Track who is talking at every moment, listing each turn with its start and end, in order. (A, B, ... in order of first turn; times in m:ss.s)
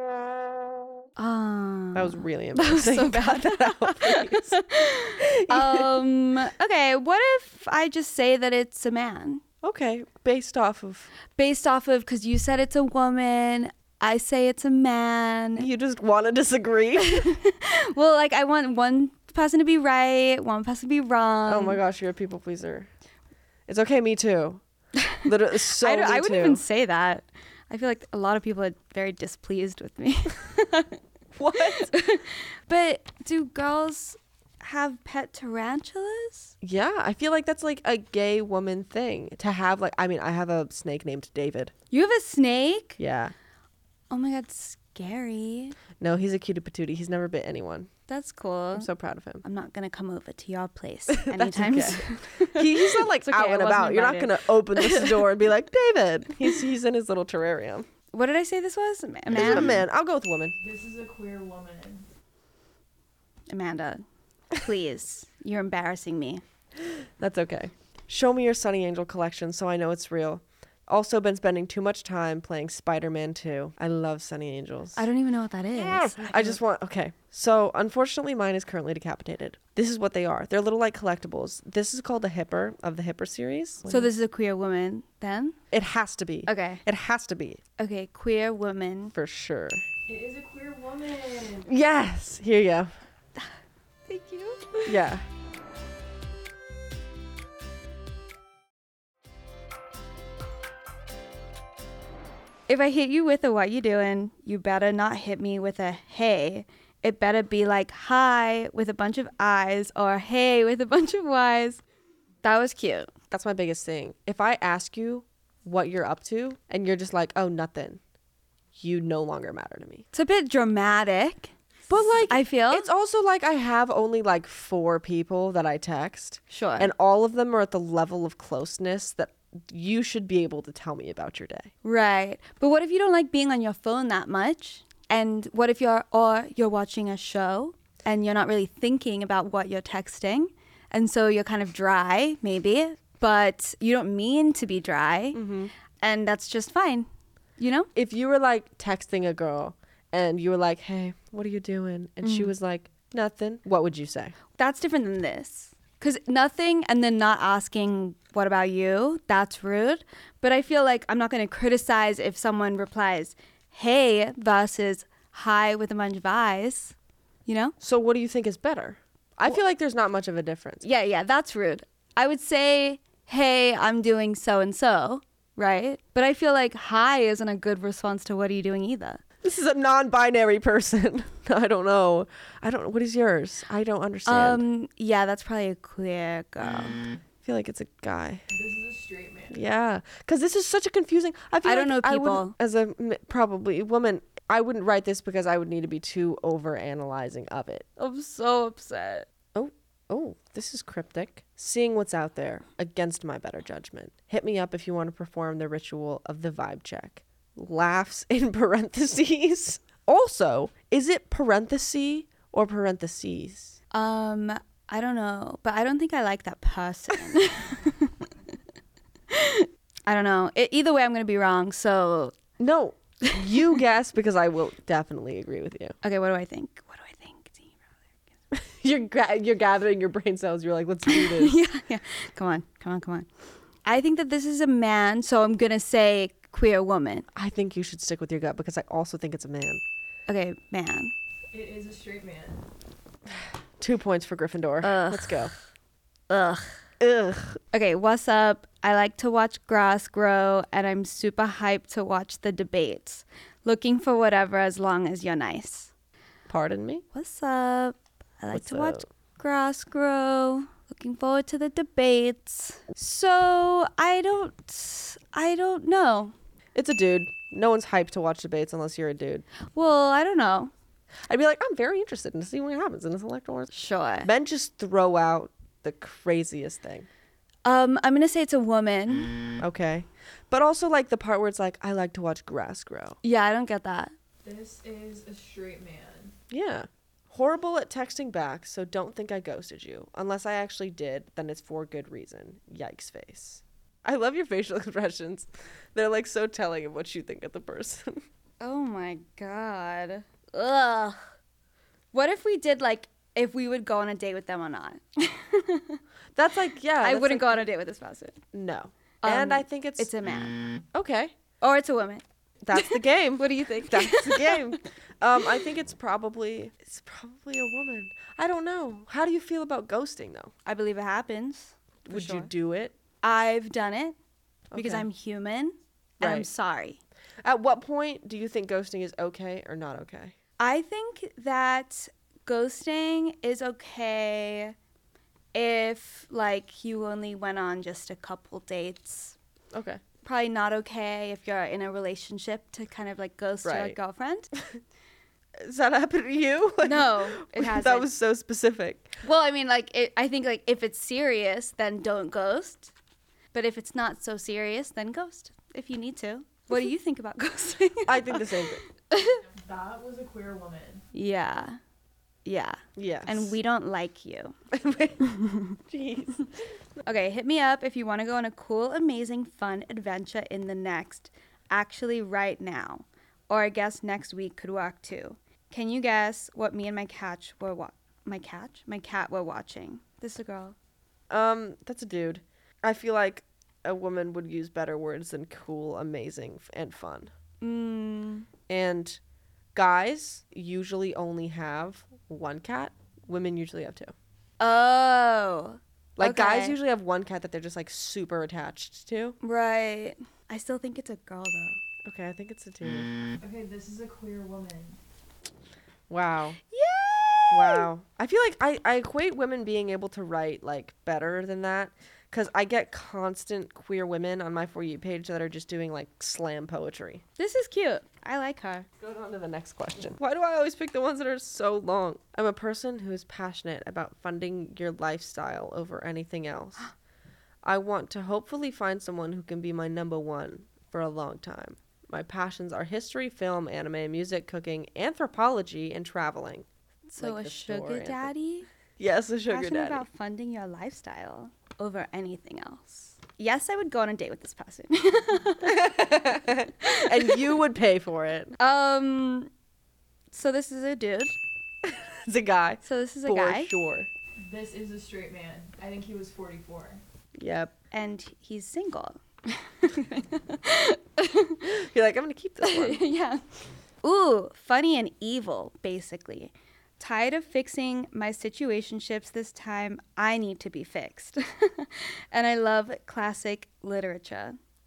0:01.2-0:09.4 A
0:01.9-0:04.6 B
0:05.2-0:06.0 B
0:09.6-0:11.1 B
0:11.4-0:15.7 A
0:15.6-0:17.3 B
0:17.0-0:21.8 A
0:21.5-0:22.9 B
0:23.7-0:24.6 B
0:25.0-0:31.0 A
0:25.2-0:26.6 B
0:31.3-0:31.9 B
0:31.5-0:36.5 A
0:36.6-0:41.7 B
0:41.9-0:43.0 A
0:43.0-0:43.3 B
0:44.1-0:45.8 A
0:46.0-0:47.9 B
0:48.1-0:48.9 A
0:48.7-0:49.4 B
0:49.4-0:55.3 A
0:51.1-0:57.9 B
0:58.1-0:59.8 A
0:59.3-1:00.6 B
1:00.6-1:02.1 C
1:03.5-1:06.4 A
1:07.2-1:15.0 B
1:15.0-1:16.6 A
1:15.7-1:24.1 B
1:23.9-1:25.6 A
1:25.7-1:27.6 B
1:26.5-1:26.8 A
1:27.8-1:29.1 A
1:29.1-1:29.8 B
1:30.1-1:31.7 C
1:31.6-1:32.9 B
1:34.0-1:34.9 A
1:34.8-1:35.2 B
1:42.7-1:51.8 A
1:52.4-1:53.1 A
1:53.3-1:58.0 B
1:58.7-2:00.0 B
2:00.1-2:01.5 A
2:01.9-2:11.7 B
2:02.3-2:02.9 A
2:06.5-2:06.9 A
2:11.8-2:25.4 A
2:25.3-2:25.7 B
2:26.0-2:27.9 A
2:27.9-2:34.4 B
2:32.2-2:32.5 A
2:34.6-2:46.9 A
2:47.4-2:47.7 A
2:47.8-2:50.8 B
2:50.8-2:59.2 A
2:59.4-3:04.6 B
3:04.2-3:07.0 A
3:07.4-3:08.4 B
3:08.5-3:09.6 C
3:09.5-3:17.9 B
3:11.6-3:12.5 A
3:18.0-3:19.2 A
3:19.5-3:33.8 B
3:33.9-3:38.3 A
3:39.3-3:42.4 A
3:42.6-3:46.0 B
3:43.2-3:43.6 A
3:46.0-3:47.9 A
3:48.5-3:51.6 B
3:51.0-3:53.3 A
3:53.8-3:57.3 A
3:57.3-3:59.8 B
4:00.3-4:01.1 A
4:01.5-4:02.6 C
4:03.3-4:05.5 B
4:04.8-4:05.5 A
4:06.3-4:06.8 A
4:07.0-4:07.6 B
4:07.7-4:15.9 A
4:16.5-4:17.0 B
4:17.1-4:26.3 A
4:18.5-4:19.0 B
4:26.7-4:29.4 B
4:29.7-4:30.7 A
4:31.3-4:33.7 B
4:33.7-4:34.3 A
4:34.2-4:37.1 B
4:37.6-4:39.3 A
4:39.6-4:43.2 B
4:43.2-4:44.1 A
4:44.4-4:46.3 C
4:46.5-4:58.2 B
4:58.6-5:01.2 A
5:02.1-5:06.0 A
5:06.3-5:07.6 B
5:07.0-5:08.4 A
5:08.5-5:10.1 B
5:09.2-5:10.6 A
5:10.9-5:11.3 B
5:11.6-5:12.2 A
5:12.6-5:20.5 B
5:12.7-5:14.8 A
5:20.6-5:22.5 A
5:22.1-5:22.9 B
5:23.2-5:24.2 A
5:24.7-5:25.1 B
5:24.7-5:27.0 A
5:26.2-5:26.5 B
5:27.4-5:30.3 B
5:30.6-5:34.7 A
5:35.5-5:39.3 A
5:39.7-5:40.0 B
5:40.2-5:44.5 A
5:43.6-5:44.0 B
5:45.6-5:49.2 B
5:46.8-5:48.1 A
5:49.2-5:52.9 A
5:53.5-5:59.4 A
5:58.0-5:58.8 B
5:59.5-6:01.0 C
6:01.1-6:01.8 A
6:02.4-6:04.6 A
6:03.0-6:03.5 B
6:04.7-6:05.2 B
6:05.2-6:05.8 A
6:05.9-6:06.5 B
6:07.0-6:20.8 A
6:21.3-6:27.3 B
6:27.6-6:28.5 A
6:28.7-6:29.2 B
6:29.7-6:34.1 B
6:34.6-6:36.8 A
6:36.2-6:39.4 B
6:39.4-6:41.8 A
6:42.0-6:43.1 B
6:43.4-6:45.0 C
6:46.1-6:46.6 B
6:46.7-6:47.9 A
6:47.5-6:57.2 B
6:57.4-6:58.9 A
6:59.0-7:06.8 B
7:07.6-7:16.6 B
7:17.1-7:18.7 A
7:17.2-7:18.3 B
7:19.0-7:20.0 B
7:19.5-7:26.0 A
7:25.6-7:28.6 B
7:26.8-7:27.4 A
7:28.6-7:29.5 A
7:30.3-7:31.4 A
7:31.8-7:34.1 B
7:32.8-7:33.7 A
7:34.4-7:37.0 C
7:37.4-7:37.7 B
7:37.9-7:41.7 A
7:41.6-7:43.0 B
7:42.6-7:43.4 A
7:44.0-7:54.6 A